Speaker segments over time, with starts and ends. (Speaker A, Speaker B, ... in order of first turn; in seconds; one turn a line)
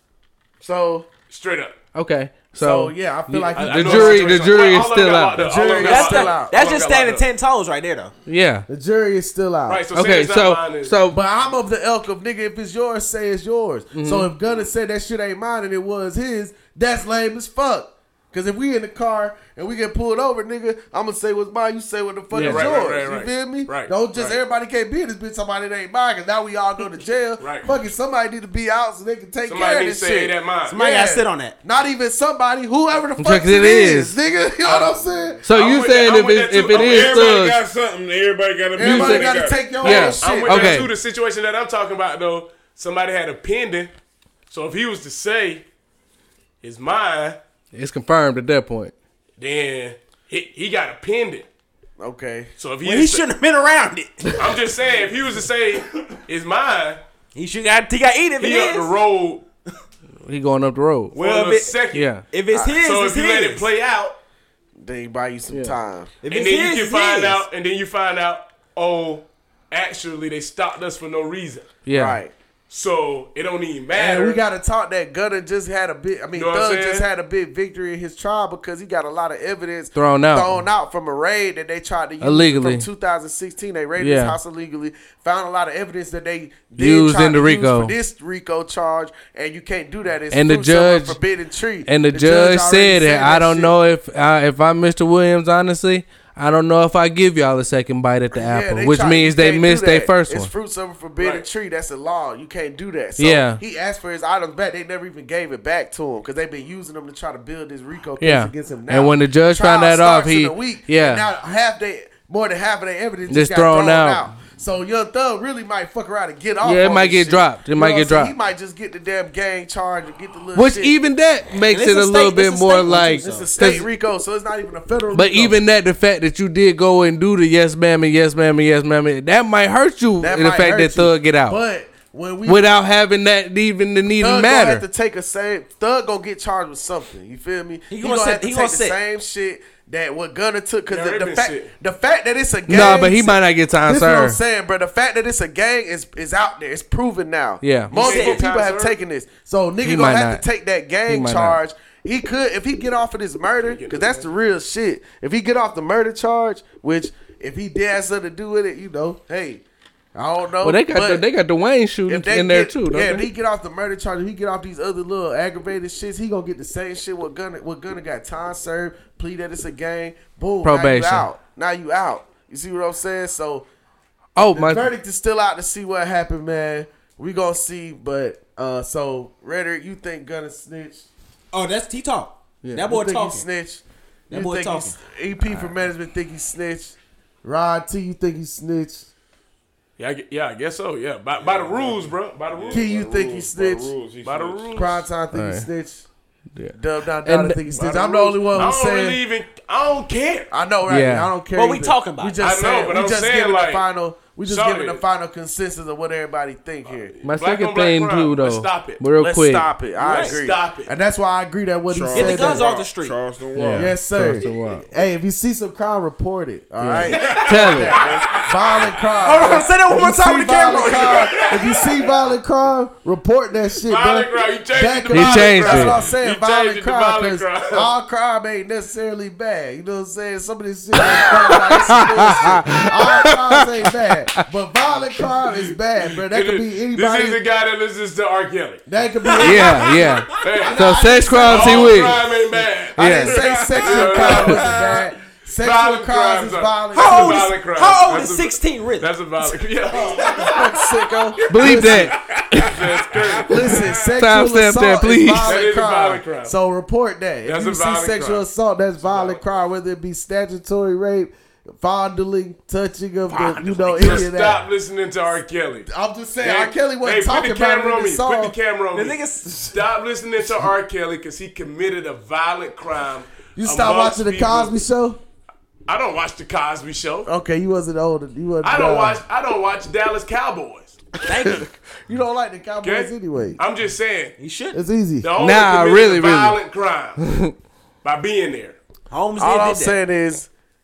Speaker A: 0.6-1.1
Speaker B: 1.3-1.8
Speaker C: 1.9-5.4
Speaker A: 2.6-4.5
Speaker B: 3.5-7.2
Speaker A: 5.3-6.5
Speaker D: 5.8-8.1
Speaker C: 8.2-8.7
Speaker A: 8.7-9.8
Speaker B: 9.7-10.9
Speaker C: 9.9-11.2
Speaker A: 11.1-35.4
Speaker C: 13.9-14.3
Speaker C: 22.3-22.8
Speaker B: 22.3-24.4
Speaker B: 27.4-27.7
Speaker B: 29.5-30.8
Speaker D: 30.7-31.5
Speaker C: 33.2-34.2
Speaker B: 34.6-34.9
Speaker C: 35.4-37.6
Speaker B: 35.5-37.5
Speaker E: 36.7-39.8
Speaker A: 38.8-40.9
Speaker C: 38.8-40.9
Speaker B: 39.8-43.9
Speaker B: 44.5-45.6
Speaker B: 46.6-47.4
Speaker C: 47.7-48.9
Speaker B: 49.4-51.5
Speaker A: 52.0-52.5
Speaker B: 52.6-53.2
Speaker D: 52.8-54.4
Speaker B: 54.4-57.0
Speaker D: 57.3-58.9
Speaker B: 58.4-59.4
Speaker C: 60.2-61.1
Speaker D: 61.1-61.8
Speaker B: 61.1-62.1
Speaker C: 61.9-62.2
Speaker D: 62.3-63.7
Speaker A: 62.5-62.8
Speaker B: 62.6-64.1
Speaker A: 64.8-66.1
Speaker C: 65.5-65.8
Speaker D: 66.2-67.4
Speaker B: 66.3-71.8
Speaker C: 71.8-72.2
Speaker A: 71.9-72.3
Speaker B: 72.7-74.4
Speaker A: 73.9-93.8
Speaker B: 76.3-77.1
Speaker C: 79.9-80.6
Speaker C: 82.2-82.8
Speaker C: 84.0-84.4
Speaker C: 86.8-87.9
Speaker C: 90.3-91.2
Speaker C: 91.8-100.5
Speaker A: 98.3-120.9
Speaker B: 101.2-101.4
Speaker C: 103.2-103.6
Speaker C: 108.2-111.3
Speaker C: 113.3-114.3
Speaker C: 116.6-118.3
Speaker C: 120.5-123.9
Speaker D: 121.7-123.5
Speaker A: 123.0-125.6
Speaker C: 125.1-131.6
Speaker A: 130.2-132.7
Speaker C: 132.4-134.8
Speaker A: 134.2-159.6
Speaker D: 137.9-139.0
Speaker B: 140.9-141.7
Speaker C: 142.7-144.4
Speaker C: 147.6-147.9
Speaker B: 147.9-148.9
Speaker D: 147.9-148.4
Speaker C: 149.8-150.4
Speaker C: 151.1-151.6
Speaker B: 153.6-154.3
Speaker A: 160.1-161.2
Speaker C: 160.6-163.2
Speaker A: 162.1-173.6
Speaker C: 170.6-171.3
Speaker C: 174.3-174.9
Speaker A: 174.5-181.1
Speaker D: 181.5-183.4
Speaker A: 182.8-189.1
Speaker D: 184.3-185.0
Speaker B: 190.0-192.8
Speaker E: 191.4-195.1
Speaker A: 192.7-193.9
Speaker B: 194.2-195.0
Speaker A: 194.7-196.0
Speaker C: 195.3-195.7
Speaker C: 196.5-197.6
Speaker A: 196.7-199.2
Speaker B: 197.7-200.5
Speaker A: 200.5-207.1
Speaker C: 200.8-201.3
Speaker D: 201.5-202.4
Speaker B: 202.4-203.8
Speaker B: 204.4-205.0
Speaker B: 206.9-209.0
Speaker C: 207.2-209.7
Speaker A: 209.2-212.7
Speaker D: 210.0-210.4
Speaker B: 210.0-210.9
Speaker E: 211.9-214.5
Speaker D: 212.1-213.2
Speaker C: 213.5-214.8
Speaker A: 213.7-237.4
Speaker C: 216.8-218.0
Speaker E: 217.0-218.9
Speaker B: 217.8-218.4
Speaker D: 219.2-221.4
Speaker B: 220.8-221.8
Speaker B: 223.8-227.9
Speaker C: 225.1-226.0
Speaker C: 230.9-234.5
Speaker B: 236.1-238.8
Speaker A: 238.9-240.1
Speaker D: 239.4-240.2
Speaker C: 239.4-242.2
Speaker E: 239.8-240.2
Speaker B: 240.3-245.0
Speaker A: 240.6-242.3
Speaker C: 242.9-243.4
Speaker A: 242.9-247.5
Speaker E: 243.3-245.1
Speaker C: 244.3-244.6
Speaker B: 245.6-250.8
Speaker D: 246.9-250.7
Speaker A: 250.4-252.2
Speaker E: 251.4-254.1
Speaker C: 251.5-252.8
Speaker B: 251.7-254.0
Speaker A: 253.5-264.6
Speaker C: 254.2-255.6
Speaker B: 255.4-256.5
Speaker B: 257.4-258.4
Speaker D: 263.3-264.3
Speaker B: 263.9-269.2
Speaker A: 265.9-268.5
Speaker D: 268.9-269.8
Speaker B: 269.7-274.8
Speaker A: 273.6-275.2
Speaker B: 275.9-277.3
Speaker A: 277.3-279.2
Speaker B: 278.6-281.0
Speaker D: 281.3-281.7
Speaker A: 281.4-283.6
Speaker B: 282.8-284.3
Speaker D: 284.4-284.8
Speaker A: 284.7-285.3
Speaker B: 285.2-287.2
Speaker C: 285.4-286.6
Speaker C: 287.2-287.5
Speaker B: 288.0-288.8
Speaker D: 289.1-290.0
Speaker A: 289.4-290.5